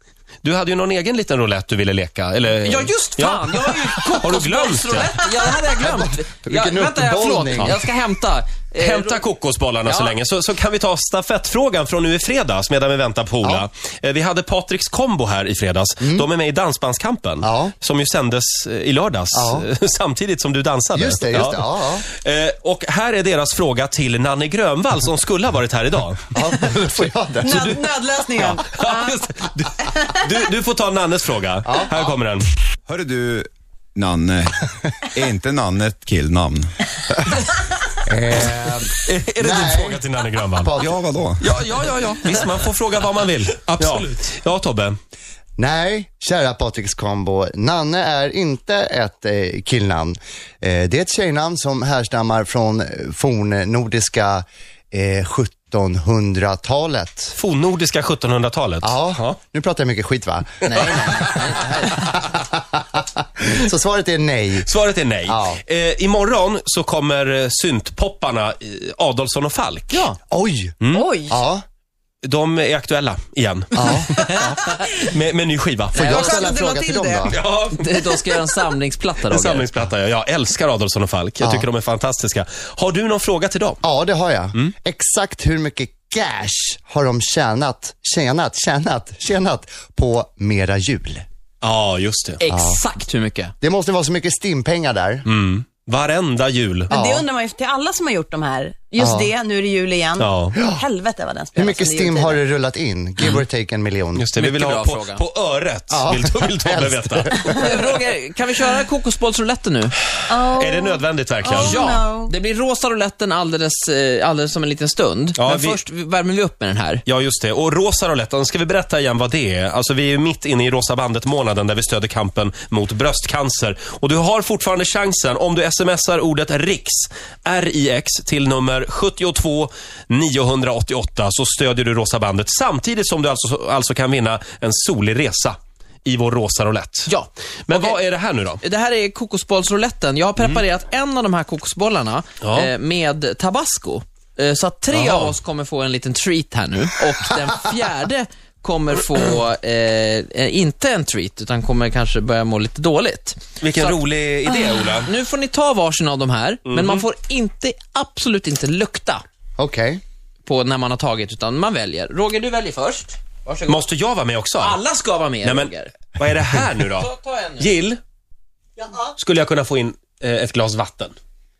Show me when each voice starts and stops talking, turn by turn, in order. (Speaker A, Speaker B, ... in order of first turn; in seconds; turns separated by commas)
Speaker A: 0.4-5.1, Speaker B: 2.6-9.2, Speaker C: 5.8-7.8, Speaker A: 8.8-26.3, Speaker B: 9.8-10.1, Speaker C: 16.0-16.3, Speaker C: 17.4-17.7, Speaker C: 19.3-19.6, Speaker C: 20.9-22.1, Speaker C: 26.3-27.8, Speaker D: 27.4-29.2, Speaker A: 27.5-32.5, Speaker D: 29.8-30.3, Speaker C: 31.6-32.1, Speaker E: 32.9-36.7, Speaker C: 38.0-40.0, Speaker A: 39.0-40.7, Speaker C: 40.6-40.9, Speaker E: 40.8-41.5, Speaker A: 41.4-45.0, Speaker C: 45.6-57.3, Speaker A: 57.3-59.4, Speaker C: 58.8-64.7, Speaker B: 60.6-62.1, Speaker A: 64.6-70.0, Speaker C: 65.2-65.6, Speaker B: 69.9-70.2, Speaker C: 70.3-71.6, Speaker A: 70.8-71.1, Speaker D: 70.9-71.4, Speaker A: 72.2-76.2, Speaker C: 73.7-74.6, Speaker D: 74.3-74.8, Speaker C: 75.9-77.4, Speaker D: 76.0-77.4, Speaker A: 77.3-78.0, Speaker B: 77.7-79.7, Speaker A: 79.3-83.8, Speaker C: 81.4-81.7, Speaker C: 83.8-91.2, Speaker A: 91.6-92.4, Speaker B: 92.4-93.5, Speaker C: 92.5-92.8, Speaker C: 93.6-95.2, Speaker A: 95.2-96.9, Speaker C: 96.9-97.2, Speaker D: 96.9-102.4, Speaker C: 99.0-99.3, Speaker A: 100.2-100.6, Speaker C: 100.5-100.8, Speaker C: 101.5-104.3, Speaker A: 104.2-107.7, Speaker B: 104.4-105.2, Speaker C: 105.9-107.8, Speaker B: 107.5-109.9, Speaker D: 110.3-112.3, Speaker A: 110.5-111.8, Speaker B: 111.5-117.0, Speaker A: 115.3-115.8, Speaker A: 117.0-137.1, Speaker B: 137.1-138.0, Speaker A: 137.7-138.6, Speaker B: 138.6-154.0, Speaker A: 142.4-142.7, Speaker A: 144.9-145.3, Speaker A: 153.6-155.1, Speaker B: 155.0-159.2, Speaker A: 156.7-157.1, Speaker C: 159.6-160.0, Speaker B: 160.4-163.8, Speaker A: 163.7-164.8, Speaker B: 164.6-165.9, Speaker A: 165.4-168.0, Speaker B: 167.0-167.7, Speaker B: 168.8-169.1, Speaker A: 169.2-171.1